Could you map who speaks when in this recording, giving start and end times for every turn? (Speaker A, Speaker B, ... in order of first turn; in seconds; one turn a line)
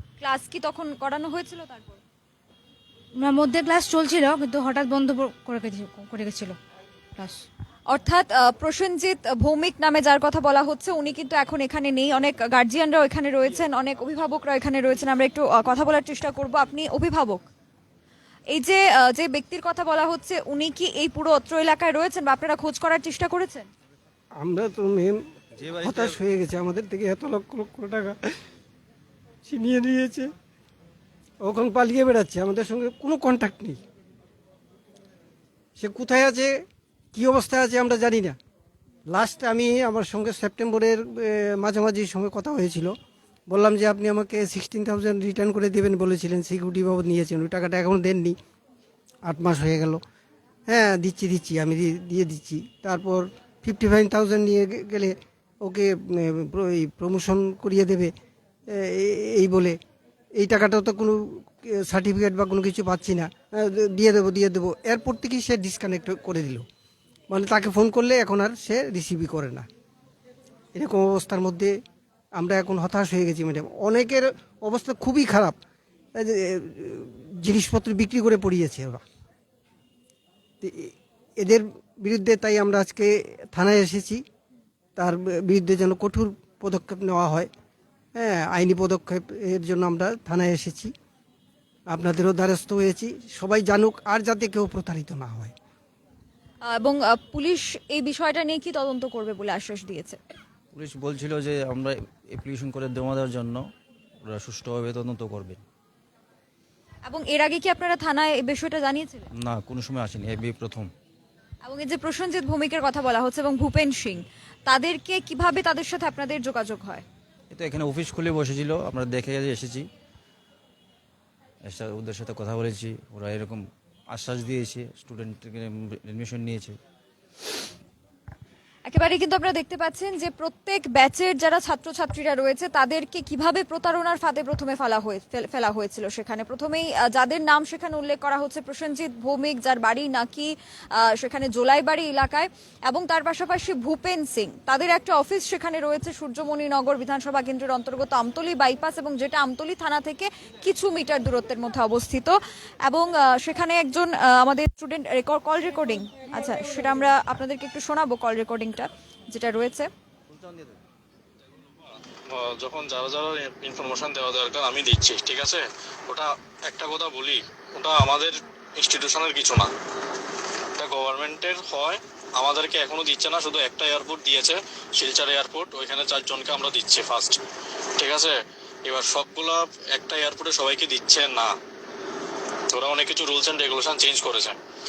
Speaker A: 0.2-2.0
Speaker B: 3.2-6.5
Speaker B: 7.2-7.4
Speaker A: 7.9-17.4
Speaker A: 18.5-23.7
Speaker C: 24.4-25.2
Speaker D: 25.6-26.1
Speaker C: 25.8-28.1
Speaker C: 29.4-30.3
Speaker C: 31.4-33.8
Speaker C: 35.8-38.4
Speaker C: 39.1-43.0
Speaker C: 43.5-48.4
Speaker C: 49.2-50.0
Speaker C: 50.7-58.1
Speaker C: 58.7-59.8
Speaker C: 60.4-66.6
Speaker C: 67.3-69.7
Speaker C: 70.7-71.7
Speaker C: 72.3-75.5
Speaker C: 76.2-79.0
Speaker C: 80.6-84.2
Speaker C: 85.0-87.5
Speaker C: 88.1-90.9
Speaker C: 91.9-95.5
Speaker A: 96.6-100.2
Speaker D: 100.7-103.7
Speaker D: 104.2-105.6
Speaker A: 107.0-109.2
Speaker D: 109.4-110.9
Speaker A: 111.6-117.0
Speaker D: 117.5-119.9
Speaker D: 121.7-126.8
Speaker A: 128.9-159.9
Speaker D: 160.3-160.7
Speaker E: 162.3-169.7
Speaker E: 170.8-177.4
Speaker E: 178.0-181.5
Speaker E: 182.7-184.6